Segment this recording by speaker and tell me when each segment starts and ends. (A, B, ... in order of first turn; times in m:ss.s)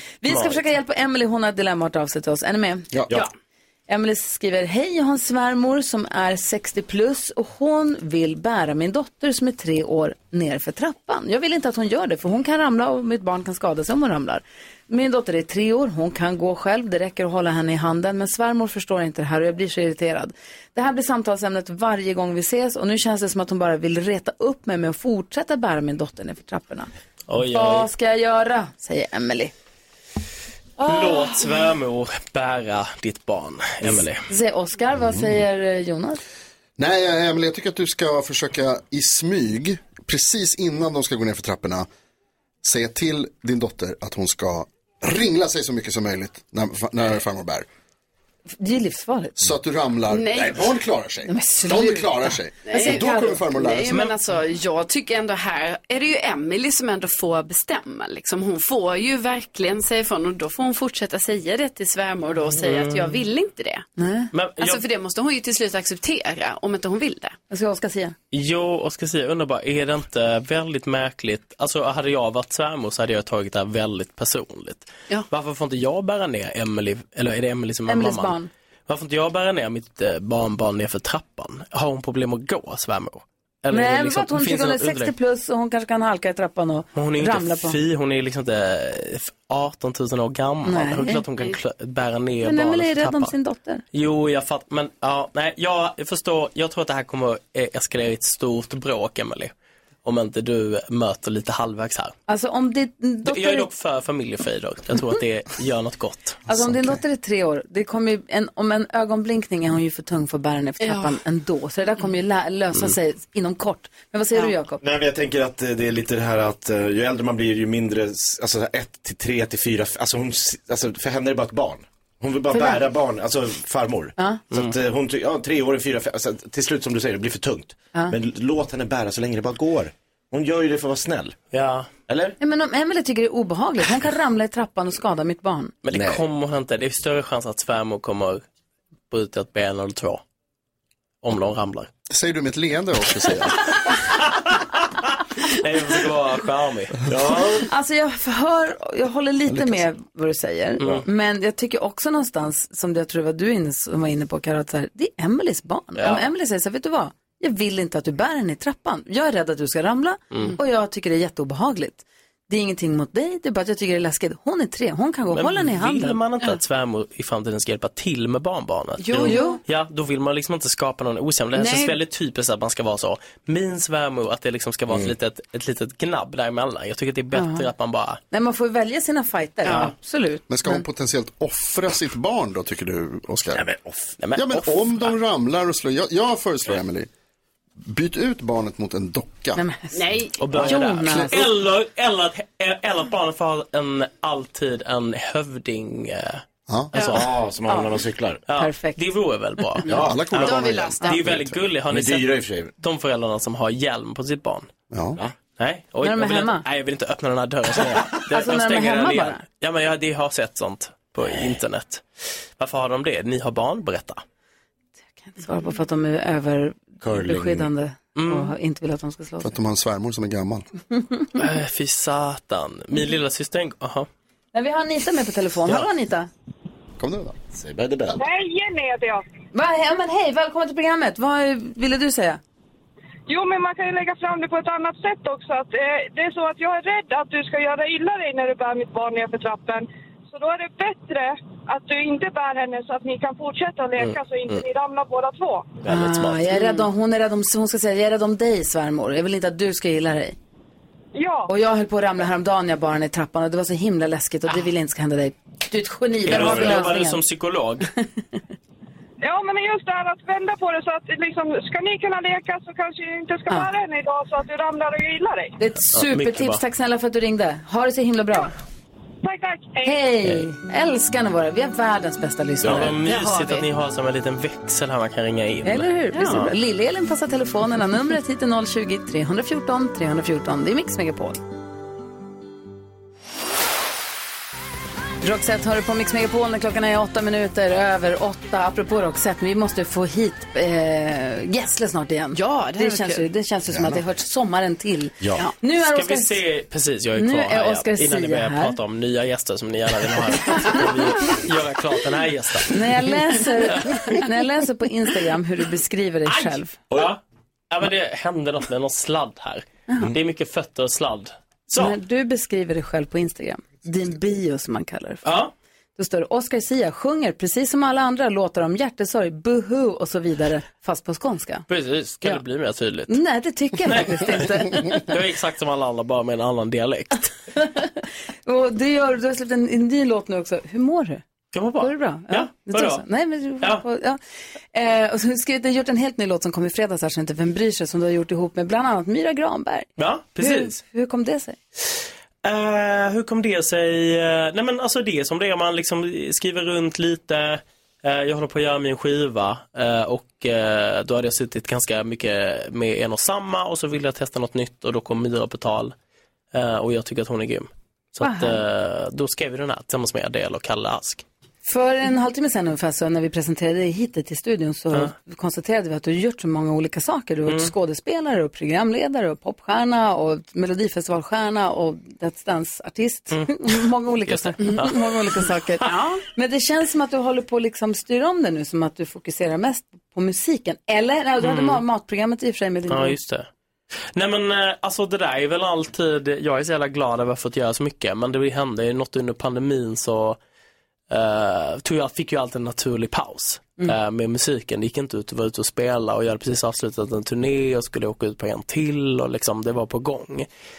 0:00.2-0:03.0 A
0:00.3-0:00.7 B
0:03.9-0:26.9 A
0:27.3-0:27.9 B
0:27.5-0:29.5 A
0:30.8-0:31.6 A
0:30.8-0:34.2 B
0:34.3-0:36.2 A
0:36.8-0:41.9 C
0:42.6-0:47.6 C
0:48.6-0:49.4 A
0:49.4-0:54.0 C
0:50.1-0:50.7 D
0:51.3-0:53.2 A
0:52.7-1:03.8 D
1:02.6-1:03.2 B
1:04.0-1:04.3 A
1:04.3-1:04.8 B
1:04.6-1:07.4 D
1:07.5-1:08.1 A
1:08.3-1:18.4 B
1:17.9-1:18.5 A
1:18.9-1:25.1 B
1:23.7-1:27.8 A
1:26.9-1:33.3 B
1:30.6-1:31.2 A
1:32.4-1:33.8 A
1:33.9-1:39.5 B
1:40.0-1:42.1 B
1:42.3-1:43.7 A
1:43.2-1:46.4 B
1:46.5-1:54.8 A
1:46.5-1:47.0 C
1:50.8-1:51.1 D
1:54.8-2:11.4 E
2:02.5-2:02.8 A
2:04.2-2:04.4 A
2:11.5-2:11.9 B
2:12.1-2:12.4 E
2:12.4-2:15.7 A
2:15.8-2:18.4 B
2:15.9-2:16.2 E
2:19.1-2:20.2 B
2:21.2-2:21.9 B
2:22.1-2:23.6 C
2:23.9-2:27.4 B
2:27.0-2:27.7 E
2:27.6-2:46.2 A
2:29.5-2:29.8 C
2:30.8-2:31.0 B
2:36.0-2:36.2 B
2:40.3-2:40.6 B
2:45.3-2:58.2 B
2:49.0-2:49.6 D
2:49.2-2:49.6 A
2:51.6-2:51.9 A
2:54.9-2:55.1 E
2:57.3-2:57.7 A
2:58.3-3:00.8 A
2:59.6-2:59.9 D
3:00.5-3:03.7 C
3:03.5-3:04.1 E
3:04.2-3:05.2 B
3:04.4-3:07.1 C
3:07.8-3:09.6 C
3:09.6-3:10.0 A
3:09.9-3:10.9 D
3:10.4-3:17.3 B
3:10.6-3:11.4 A
3:16.7-3:16.9 C
3:16.9-3:17.2 D
3:17.0-3:18.4 E
3:17.7-3:17.9 A
3:18.5-3:24.7 B
3:18.6-3:19.0 A
3:19.9-3:20.3 E
3:19.9-3:21.6 C
3:20.3-3:21.3 D
3:21.9-3:22.7 E
3:24.9-3:25.2 C
3:25.5-3:32.0 B
3:26.0-3:26.6 A
3:28.3-3:29.4 A
3:32.6-3:34.2 B
3:35.3-3:39.5 A
3:37.0-3:37.7 E
3:38.2-3:38.5 B
3:39.4-3:40.6 C
3:41.4-3:44.1 B
3:44.5-3:46.3 A
3:47.0-3:47.4 C
3:47.5-3:48.2 E
3:48.2-3:49.2 F
3:49.5-3:52.4 A
3:53.3-4:05.7 F
4:04.0-4:04.6 B
4:05.8-4:06.4 E
4:05.8-4:10.3 A
4:06.0-4:06.3 B
4:06.5-4:06.8 D
4:11.1-4:11.5 F
4:11.5-4:17.2 A
4:16.2-4:17.9 B
4:16.3-4:16.8 E
4:19.2-4:25.5 F
4:25.6-4:28.5 A
4:25.9-4:26.6 B
4:29.2-4:30.0 F
4:29.8-4:33.6 A
4:32.6-4:33.0 E
4:32.6-4:36.5 B
4:35.6-4:41.4 A
4:36.1-4:36.4 D
4:45.2-4:56.4 A
4:52.3-4:53.3 D
4:53.7-4:54.0 C
4:55.8-5:03.1 B
4:57.2-4:58.8 A
5:00.5-5:00.7 A
5:02.7-5:06.7 A
5:03.7-5:04.1 B
5:06.2-5:07.2 B
5:07.7-5:12.0 B
5:11.8-5:15.2 A
5:15.2-5:15.5 B
5:16.0-5:21.6 A
5:21.7-5:23.2 B
5:23.1-5:25.1 A
5:23.8-5:27.3 B
5:27.5-5:31.2 A
5:31.5-5:33.0 B
5:31.8-5:34.2 A
5:34.7-5:41.6 A
5:40.0-5:40.8 B
5:42.4-5:55.9 B
5:56.5-6:01.2 B
5:58.2-5:58.6 A
6:01.6-6:23.2 A
6:07.4-6:07.7 B
6:13.3-6:15.9 B
6:15.8-6:16.2 D
6:21.4-6:21.8 B
6:22.9-6:23.5 B
6:24.1-6:30.4 B
6:31.1-6:40.5 B